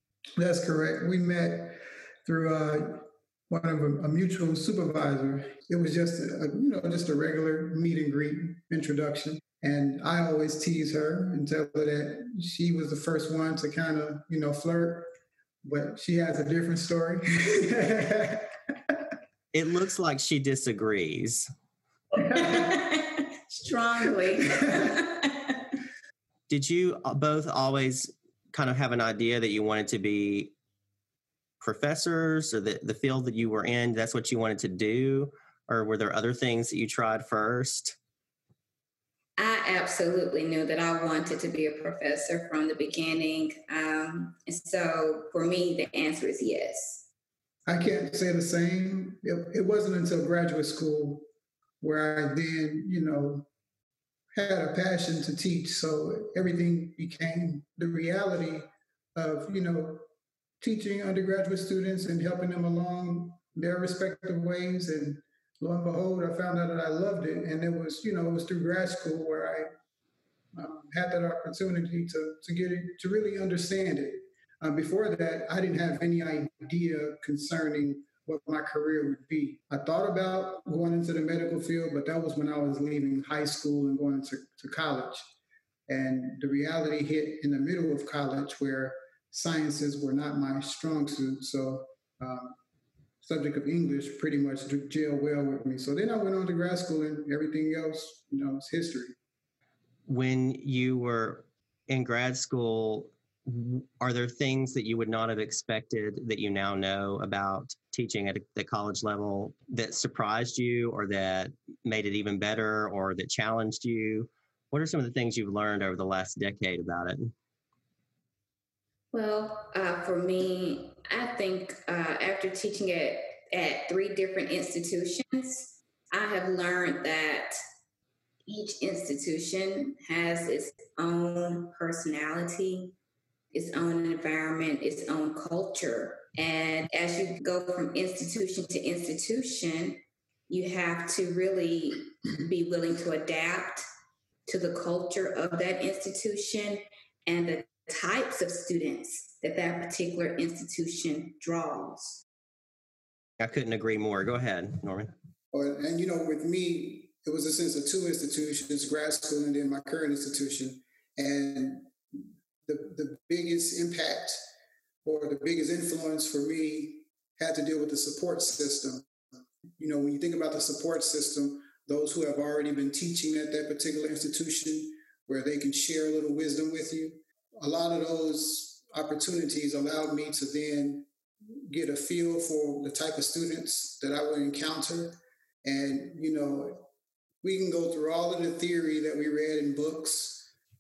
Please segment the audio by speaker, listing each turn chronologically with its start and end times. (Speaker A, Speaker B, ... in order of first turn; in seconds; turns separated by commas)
Speaker A: 0.4-15.1, Speaker A: 15.6-19.0, Speaker B: 19.5-21.5, Speaker C: 22.2-25.7, Speaker A: 22.2-22.7, Speaker B: 26.5-30.5, Speaker B: 31.6-38.0, Speaker C: 39.4-47.0, Speaker A: 47.7-51.3, Speaker A: 51.8-53.5, Speaker A: 54.3-60.0, Speaker A: 60.6-69.7, Speaker A: 70.5-85.2, Speaker A: 85.9-92.6, Speaker A: 93.2-99.2, Speaker B: 100.1-117.3, Speaker C: 119.1-127.6, Speaker C: 128.5-133.0, Speaker C: 133.5-143.8, Speaker C: 144.5-152.2, Speaker B: 153.4-155.1, Speaker A: 155.5-164.4, Speaker A: 165.0-169.1, Speaker A: 169.8-186.9, Speaker A: 187.4-190.5